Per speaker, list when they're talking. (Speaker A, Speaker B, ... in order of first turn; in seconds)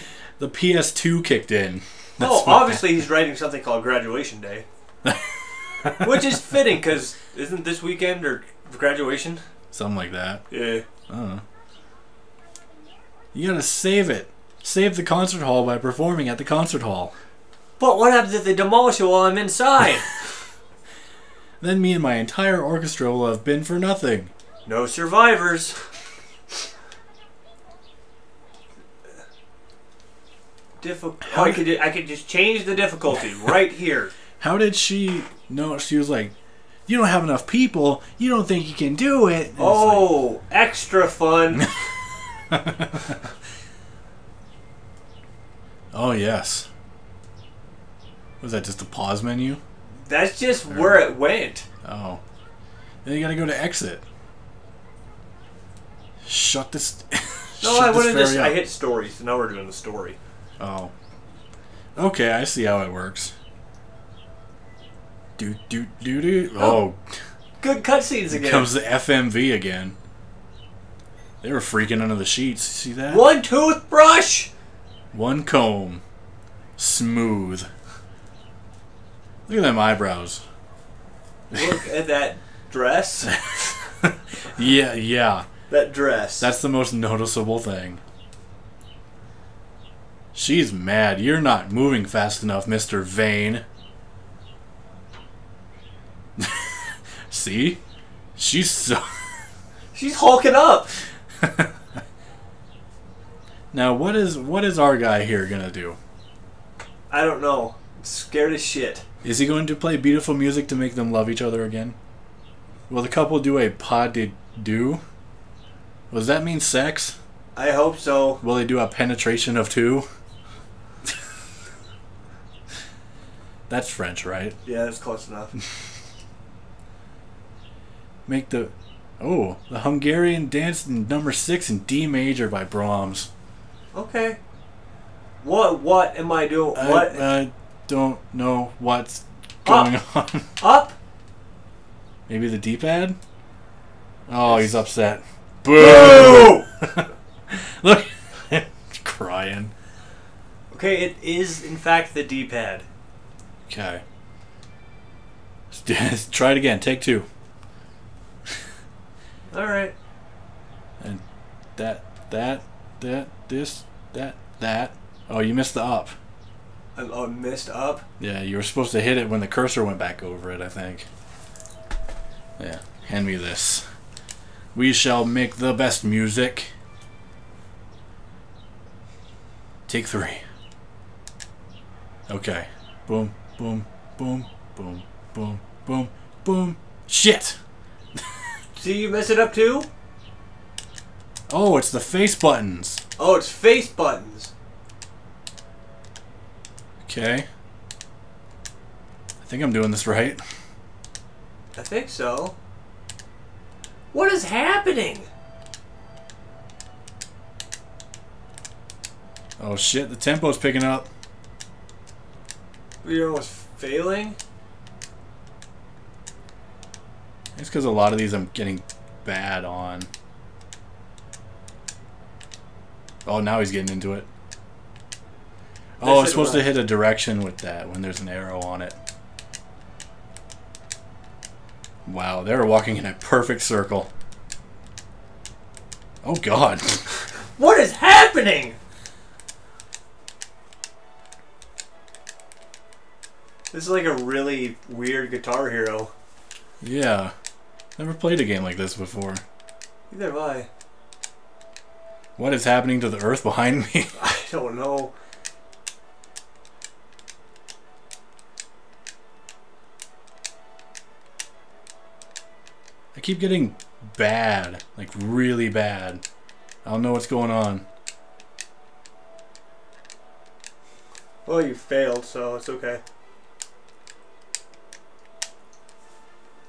Speaker A: 0.4-2.9, 9.7-10.4, 11.1-11.4, 13.3-17.1, 21.6-24.3, 31.3-31.6, 34.4-36.4, 36.9-40.1, 42.5-43.2, 45.9-46.7, 48.4-49.6, 50.7-51.1, 51.9-52.2, 53.0-54.0, 56.2-58.6, 60.6-60.9, 62.0-63.3, 65.4-67.2, 68.3-70.0, 71.4-73.2, 75.1-76.0, 76.8-77.7, 79.5-80.4, 83.2-85.5, 86.4-88.0, 90.3-93.6, 96.4-97.8, 98.4-99.1, 101.4-101.7, 103.7-106.0, 109.2-112.0, 112.9-115.0, 116.1-117.2, 118.4-120.1, 123.7-124.6, 128.3-133.3, 136.8-140.6, 142.3-143.2, 144.3-149.7, 153.7-154.0, 155.7-157.3, 161.8-166.2, 168.2-171.1, 172.6-173.8, 174.8-176.7, 179.9-180.4, 182.3-187.6, 191.5-193.0, 197.1-197.5, 199.4-200.4, 209.6-211.1, 217.6-220.1, 223.3-224.3, 226.0-229.0, 232.1-234.1, 236.2-237.1, 246.8-247.3, 248.0-249.4, 252.4-254.2, 263.1-266.2, 266.9-267.9
Speaker B: 2.2-4.7, 6.0-9.4, 10.5-10.8, 17.8-20.1, 24.7-25.8, 30.8-34.1, 39.6-41.7, 50.0-51.7, 57.6-60.2, 67.6-68.7, 73.1-74.5, 81.5-83.7, 85.7-86.5, 99.9-100.9, 107.1-109.0, 117.6-118.4, 124.7-125.5, 133.9-134.4, 135.4-137.3, 139.7-139.9, 140.6-141.0, 144.4-144.8, 145.8-146.7, 150.7-152.9, 159.5-159.9, 167.0-168.0, 188.8-189.9, 193.2-194.5, 201.8-202.6, 204.1-205.3, 213.0-214.4, 226.0-226.8, 237.6-238.8, 243.7-246.1, 250.1-250.7, 254.2-255.1, 271.5-273.0